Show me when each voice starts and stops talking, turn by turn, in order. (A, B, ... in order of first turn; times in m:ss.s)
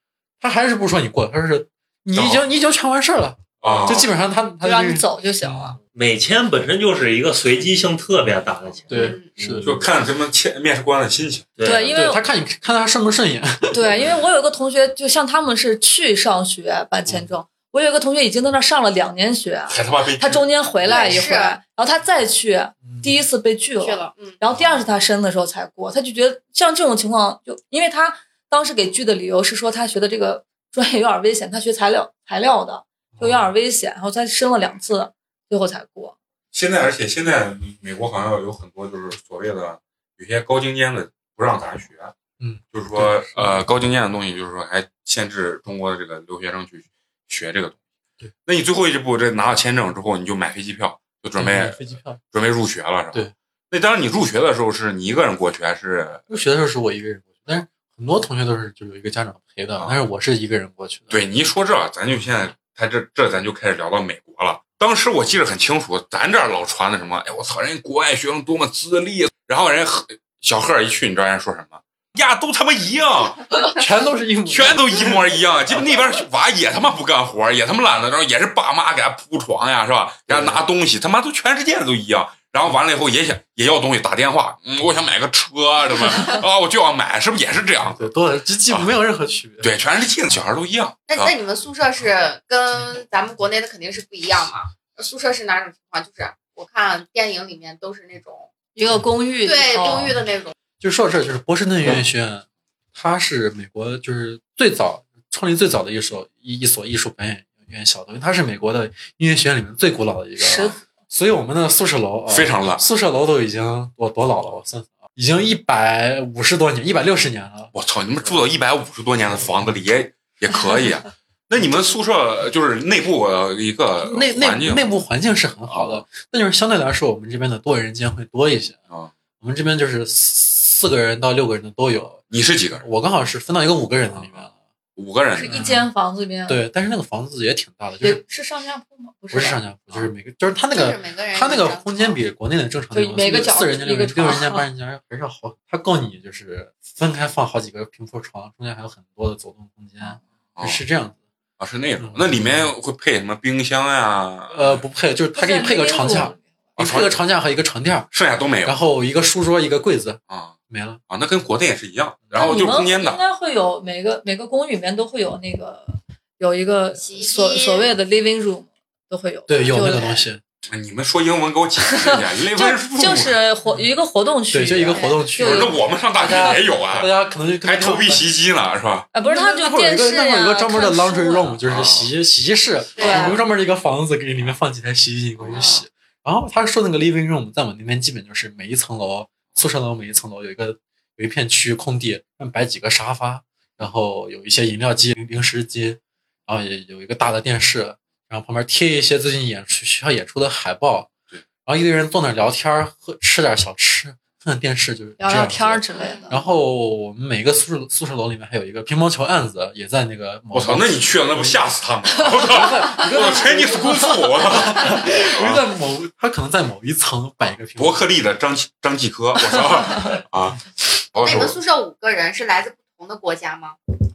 0:00.4-0:05.8 A
0:02.2-0:02.4 B
0:03.6-0:04.1 B
0:03.6-0:04.0 C
0:04.6-0:05.8 D
0:05.8-0:09.9 C
0:08.9-0:09.7 A
0:09.0-0:09.3 E
0:09.6-0:11.5 B
0:11.6-0:12.1 C
0:11.6-0:12.2 D
0:11.9-0:13.8 A
0:13.7-0:36.2 D
0:19.7-0:20.4 B
0:20.8-0:21.6 E
0:22.8-0:23.2 A
0:23.8-0:24.4 E
0:33.2-0:33.5 A
0:36.5-0:42.1 B
0:42.4-0:43.6 A
0:42.7-0:47.8 B
0:48.4-0:56.4 B
0:51.4-0:52.2 A
0:56.3-1:01.2 A
1:01.1-1:13.5 B
1:13.8-1:15.2 A
1:14.5-1:28.1 B
1:20.3-1:20.6 A
1:27.9-1:29.7 A
1:29.6-1:31.4 B
1:31.1-1:38.5 E
1:38.8-1:40.2 D
1:39.4-1:40.6 E
1:40.8-1:57.7 A
1:50.4-1:50.8 D
1:52.3-1:52.8 B
1:57.7-2:04.8 B
2:04.0-2:08.8 A
2:05.7-2:06.0 B
2:09.4-2:12.2 A
2:12.3-2:12.8 B
2:12.8-2:14.5 A
2:14.1-2:15.6 B
2:15.3-2:16.6 D
2:15.5-2:15.9 A
2:16.5-2:18.2 A
2:18.0-2:19.6 D
2:19.3-2:31.2 A
2:20.7-2:22.2 E
2:22.9-2:24.7 D
2:30.6-2:30.8 B
2:31.6-2:34.8 B
2:32.0-2:32.7 A
2:34.5-2:38.1 A
2:35.4-2:36.4 D
2:36.8-2:37.2 B
2:38.1-2:38.8 B
2:38.6-2:41.0 A
2:41.1-2:43.2 B
2:42.3-2:50.2 D
2:47.0-2:48.0 E
2:49.5-2:50.4 A
2:50.6-2:53.4 B
2:51.8-2:56.6 D
2:54.5-2:58.3 A
2:54.9-2:55.1 E
2:55.4-2:57.1 B
2:57.6-2:59.1 B
2:59.1-3:01.6 D
2:59.2-3:21.1 A
3:01.7-3:02.1 B
3:03.0-3:03.4 E
3:03.0-3:03.4 D
3:05.4-3:05.7 B
3:05.5-3:05.8 E
3:21.6-3:31.6 A
3:25.2-3:26.4 D
3:26.0-3:26.3 E
3:30.5-3:35.6 B
3:32.4-3:38.1 A
3:37.8-3:41.6 B
3:41.2-3:43.8 E